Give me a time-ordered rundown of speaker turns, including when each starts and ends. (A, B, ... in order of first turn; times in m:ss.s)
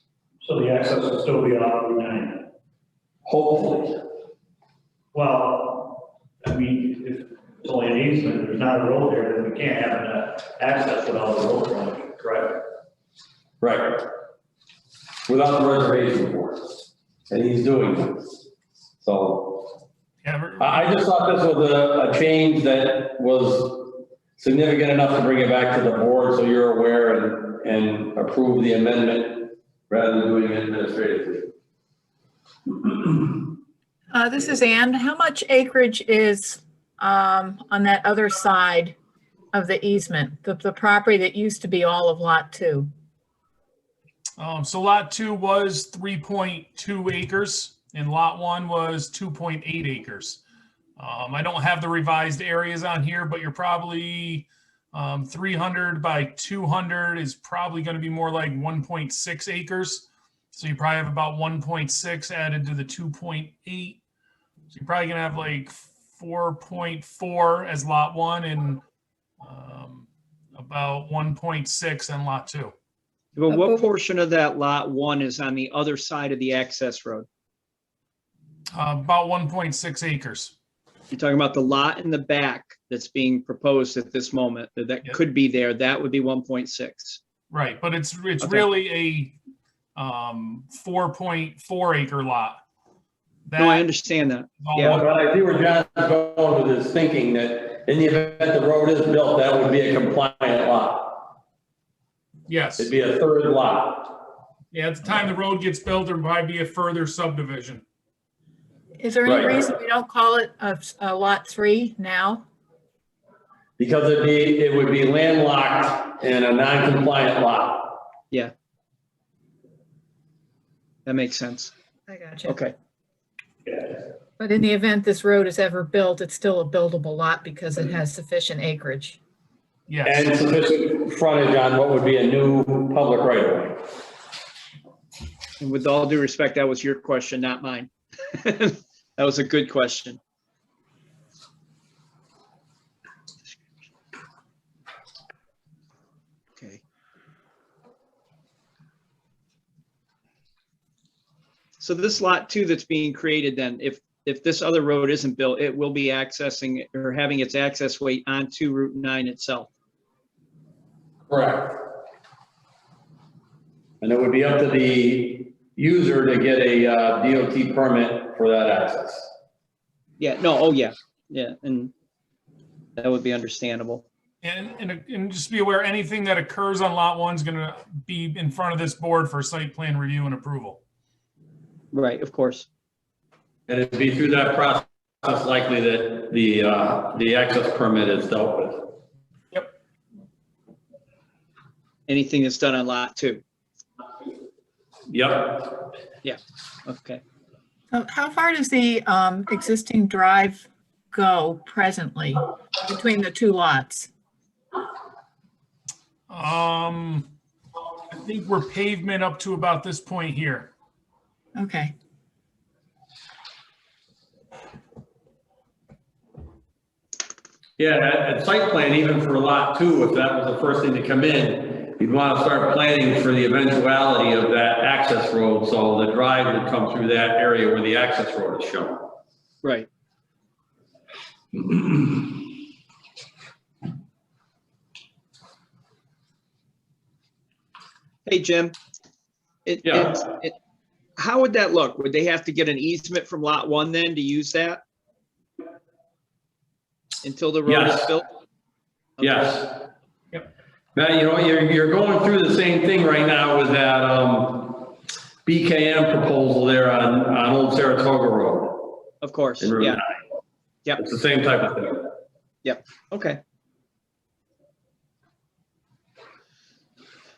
0:00.4-0:02.5 A
0:03.2-0:04.0 B
0:05.1-0:12.6 A
0:13.6-0:14.1 B
0:15.3-0:16.8 B
0:17.3-0:18.4 B
0:19.0-0:19.7 B
0:20.2-0:20.9 C
0:20.6-0:31.5 B
0:34.1-0:39.0 D
0:39.5-0:42.9 D
0:44.4-0:50.4 C
0:51.0-1:04.0 C
1:04.7-1:08.8 C
1:09.4-1:12.7 C
1:13.4-1:17.3 E
1:13.5-1:13.8 D
1:18.7-1:20.5 C
1:21.1-1:27.2 E
1:27.5-1:29.3 C
1:28.4-1:28.7 E
1:30.0-1:32.6 C
1:33.5-1:33.9 C
1:33.6-1:35.0 E
1:34.6-1:35.0 C
1:34.8-1:41.3 B
1:42.5-1:42.9 C
1:42.8-1:44.2 B
1:44.7-1:47.8 C
1:49.0-1:52.4 D
1:49.2-1:49.6 B
1:53.8-1:58.0 B
2:01.0-2:01.7 E
2:02.1-2:02.6 D
2:02.4-2:02.7 E
2:04.4-2:09.2 D
2:09.9-2:10.3 C
2:10.0-2:13.8 B
2:15.6-2:20.2 E
2:31.8-2:39.7 E
2:41.3-2:41.9 B
2:44.0-2:49.3 B
2:50.2-2:51.9 E
2:53.0-2:54.0 E
2:54.4-3:00.8 C
3:01.9-3:02.7 E
3:03.7-3:09.0 B
3:12.1-3:13.4 E
3:15.1-3:15.8 B
3:16.2-3:17.2 E
3:17.9-3:24.1 D
3:26.3-3:27.3 C
3:28.1-3:30.7 C
3:31.6-3:31.9 D
3:37.8-3:49.1 B
3:49.6-3:49.9 E
3:51.6-3:52.2 B
3:58.2-3:58.8 E
3:59.6-4:00.5 E
3:59.8-4:00.2 B
4:01.2-4:04.8 E
4:07.2-4:08.3 E
4:07.6-4:08.1 B
4:09.2-4:09.5 E
4:09.2-4:09.9 B
4:10.9-4:19.0 B
4:19.2-4:20.0 E
4:19.6-4:20.0 B
4:21.0-4:22.2 B
4:22.6-4:23.4 E